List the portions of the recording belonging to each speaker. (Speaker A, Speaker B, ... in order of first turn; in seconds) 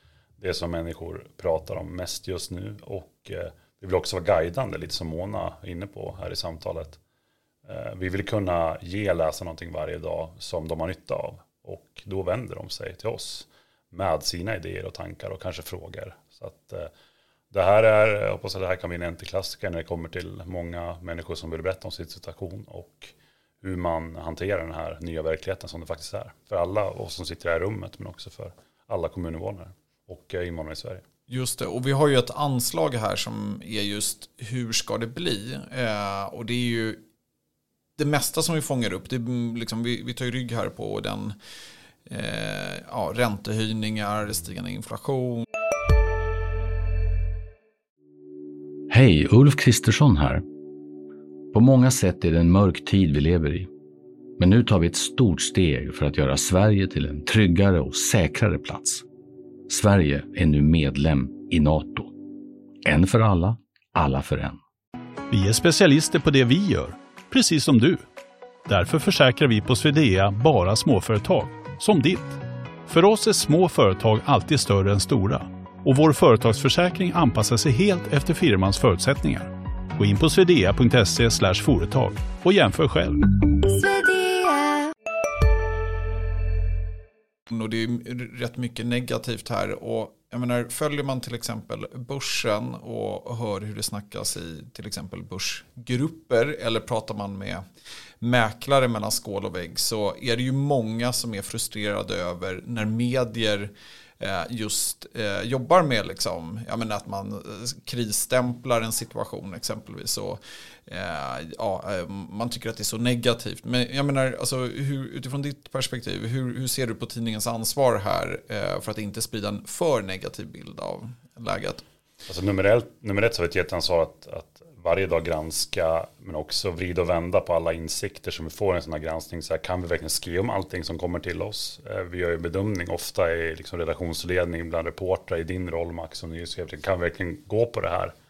Speaker A: 0.4-7.0, 7.7-16.9, 17.5-23.1, 23.6-31.0, 122.3-138.1
Speaker B: 31.3-37.0, 38.0-41.4, 42.1-45.5, 87.5-97.6, 98.2-121.8
Speaker C: 48.9-50.4, 51.5-53.7, 54.4-59.0, 59.7-62.1, 62.8-64.6
Speaker D: 65.3-68.0, 68.7-83.2